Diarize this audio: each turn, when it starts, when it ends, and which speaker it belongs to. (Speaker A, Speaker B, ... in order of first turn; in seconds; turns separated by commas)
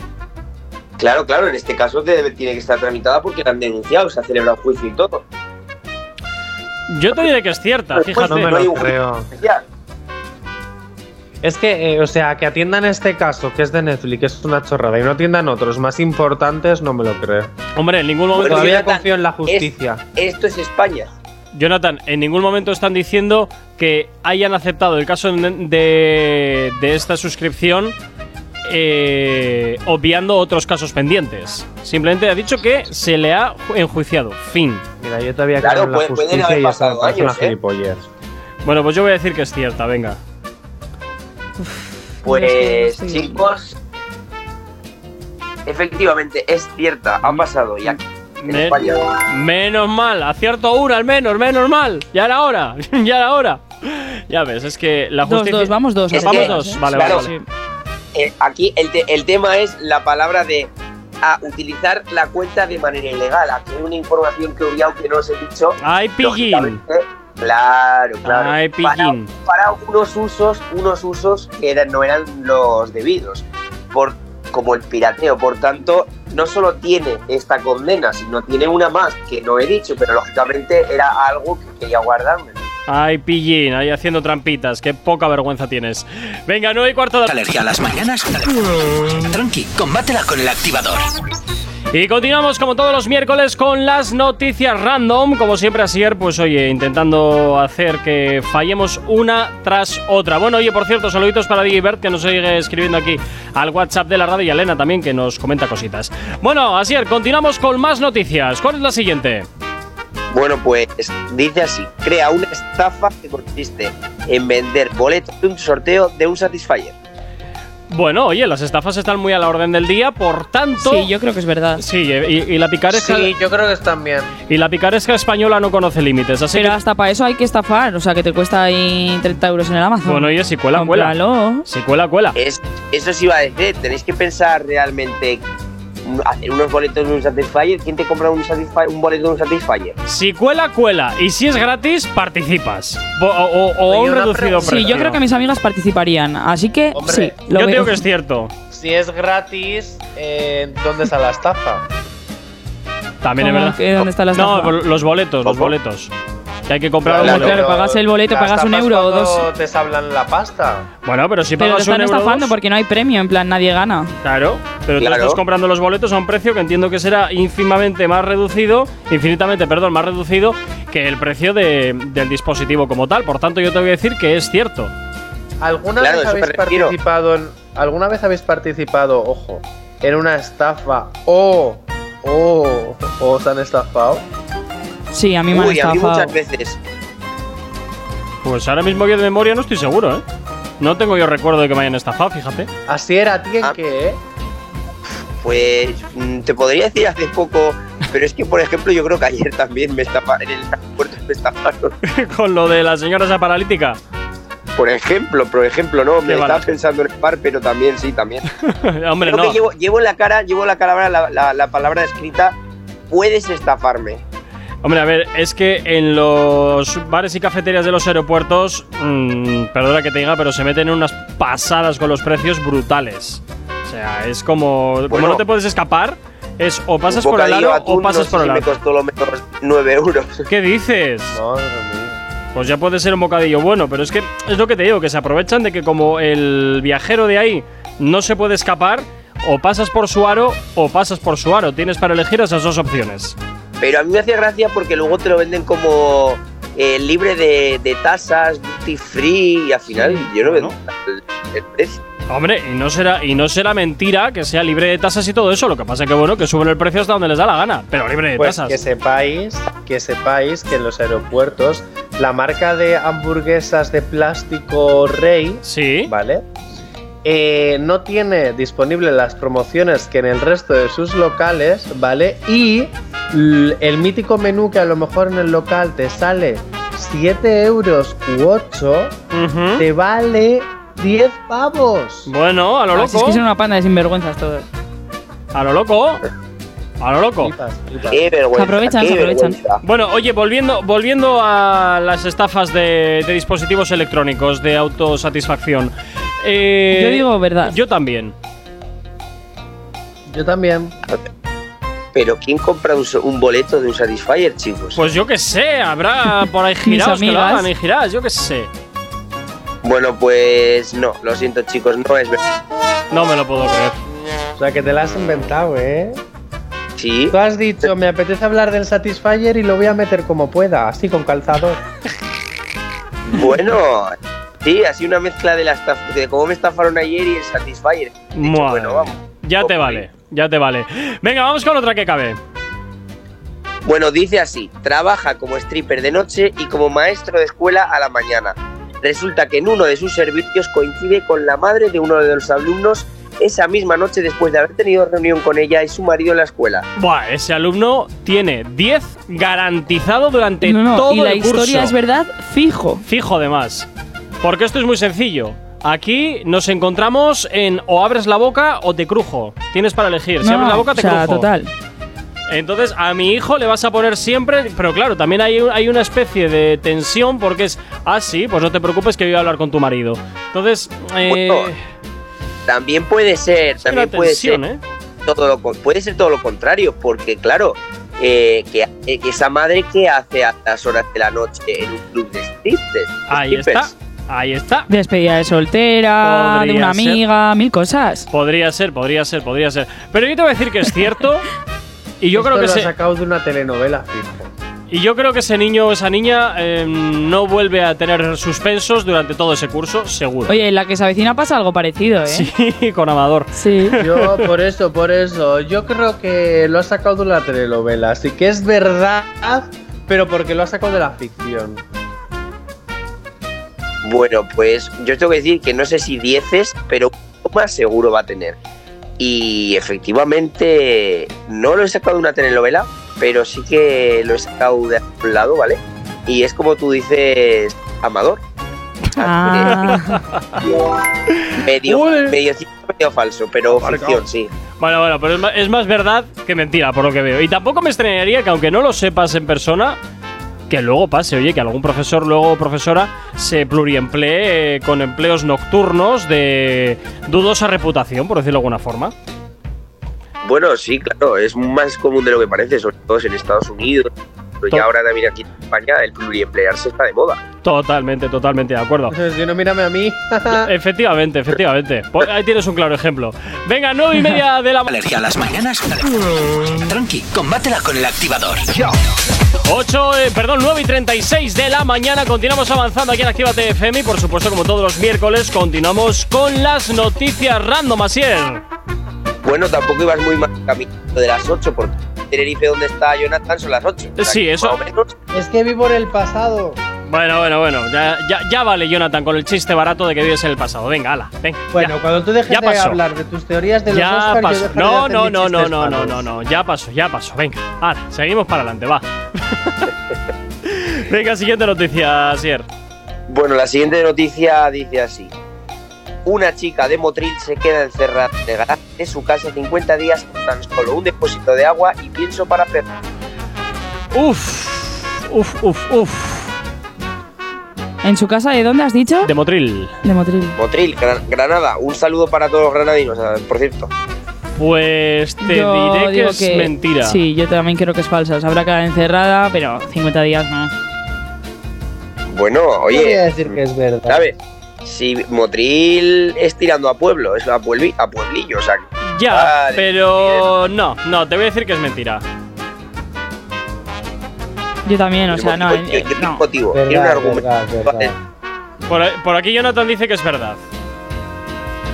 Speaker A: 1.0-5.2, Speaker B: 6.9-8.6, Speaker A: 7.9-9.6, Speaker C: 8.2-9.3, Speaker C: 11.4-17.5, Speaker B: 17.8-18.8, Speaker A: 18.3-21.1, Speaker C: 18.4-20.0, Speaker B: 21.5-27.9, Speaker B: 28.6-34.8, Speaker C: 35.0-38.1, Speaker A: 35.6-37.5, Speaker B: 38.6-40.2, Speaker D: 41.6-43.5, Speaker A: 42.2-43.8, Speaker A: 45.6-49.1, Speaker B: 48.4-57.3, Speaker D: 55.2-57.5, Speaker A: 56.1-57.3, Speaker A: 58.1-82.6, Speaker B: 65.8-66.8, Speaker B: 68.2-69.3, Speaker B: 82.9-87.3, Speaker E: 87.3-91.1, Speaker B: 91.9-109.5, Speaker A: 110.3-116.9, Speaker B: 117.9-121.1, Speaker D: 120.8-121.8, Speaker B: 121.8-123.3, Speaker C: 122.9-124.3, Speaker B: 124.5-126.8, Speaker D: 126.5-131.7, Speaker B: 130.1-132.4, Speaker A: 132.3-135.4, Speaker A: 136.0-139.9, Speaker B: 140.1-145.2, Speaker C: 143.9-145.0, Speaker D: 144.6-148.0, Speaker C: 146.9-147.4, Speaker B: 147.5-148.5, Speaker C: 148.7-151.8, Speaker B: 153.2-156.1, Speaker D: 153.4-154.8, Speaker A: 155.4-155.7, Speaker B: 156.7-157.6, Speaker C: 157.0-160.9, Speaker D: 157.2-159.4, Speaker A: 157.2-157.6, Speaker B: 161.0-162.5, Speaker D: 161.6-164.1, Speaker B: 164.2-174.9, Speaker A: 165.0-165.4, Speaker C: 175.6-184.2, Speaker A: 176.0-176.9, Speaker D: 185.1-186.3, Speaker A: 185.5-186.8, Speaker B: 188.4-190.2, Speaker B: 190.8-192.7, Speaker C: 192.9-194.2, Speaker A: 195.4-201.9, Speaker B: 202.0-204.0, Speaker A: 204.8-208.4, Speaker B: 206.2-206.7, Speaker B: 208.6-209.6, Speaker A: 209.2-212.6, Speaker A: 213.1-214.2, Speaker B: 214.8-228.7, Speaker A: 225.1-225.4, Speaker A: 227.1-230.5, Speaker B: 230.5-231.4, Speaker C: 231.3-232.2, Speaker B: 232.5-243.3, Speaker A: 243.8-252.0, Speaker D: 250.0-250.3, Speaker B: 250.4-250.7, Speaker B: 252.3-258.8, Speaker C: 258.4-266.4, Speaker B: 265.6-266.1, Speaker C: 267.2-279.2, Speaker B: 279.3-279.8, Speaker C: 279.8-282.3, Speaker B: 282.3-283.4, Speaker D: 282.9-284.7, Speaker B: 285.5-286.2, Speaker B: 287.0-287.5, Speaker C: 287.4-288.2, Speaker A: 288.1-289.8, Speaker D: 288.5-289.6, Speaker B: 289.8-298.3, Speaker D: 296.9-297.8, Speaker C: 300.3-300.9, Speaker A: 302.1-305.0, Speaker B: 304.9-308.7, Speaker D: 306.9-307.7, Speaker A: 309.8-312.5, Speaker B: 313.1-314.0, Speaker C: 314.6-316.2, Speaker A: 317.0-317.4, Speaker C: 317.3-321.8, Speaker A: 323.3-330.1, Speaker B: 328.3-332.4, Speaker A: 333.8-346.9, Speaker B: 346.9-351.9, Speaker D: 350.6-353.0, Speaker B: 353.0-353.9, Speaker B: 354.4-361.5, Speaker D: 360.4-361.7, Speaker B: 362.5-371.8, Speaker A: 371.3-371.7, Speaker A: 372.7-374.6, Speaker B: 373.8-374.8, Speaker A: 375.2-383.9, Speaker B: 383.3-384.9, Speaker D: 384.9-388.3, Speaker B: 386.2-387.2, Speaker B: 388.3-391.5, Speaker B: 392.2-392.9, Speaker C: 392.3-394.5, Speaker B: 394.9-400.6, Speaker D: 400.5-402.5, Speaker B: 402.3-404.5, Speaker D: 403.6-404.0, Speaker C: 404.0-411.8, Speaker A: 414.0-418.6, Speaker A: 419.2-428.4, Speaker A: 429.1-429.8, Speaker D: 429.2-430.2, Speaker B: 429.5-430.6, Speaker B: 431.4-432.3, Speaker A: 431.6-434.5, Speaker C: 433.7-434.2, Speaker B: 434.8-440.0, Speaker B: 440.7-449.1, Speaker A: 450.4-457.4, Speaker B: 457.6-459.1, Speaker C: 459.1-460.7, Speaker B: 460.5-464.9, Speaker E: 464.9-468.9, Speaker B: 469.6-478.6, Speaker A: 479.4-485.1, Speaker B: 484.2-484.8, Speaker C: 485.3-486.8, Speaker B: 487.1-491.9, Speaker C: 491.7-496.3, Speaker B: 492.5-493.0, Speaker B: 493.9-499.9, Speaker B: 500.6-502.6, Speaker A: 503.3-505.3, Speaker A: 506.2-512.9, Speaker B: 514.1-516.5, Speaker D: 518.0-519.3, Speaker B: 519.2-520.0, Speaker D: 520.0-520.6, Speaker A: 520.6-523.9, Speaker B: 524.6-527.2, Speaker D: 525.4-530.7, Speaker A: 532.3-533.5, Speaker C: 532.9-534.3, Speaker A: 534.1-540.4, Speaker B: 539.0-542.2, Speaker D: 544.9-546.4, Speaker A: 545.3-548.1, Speaker C: 546.7-548.1, Speaker B: 548.9-550.6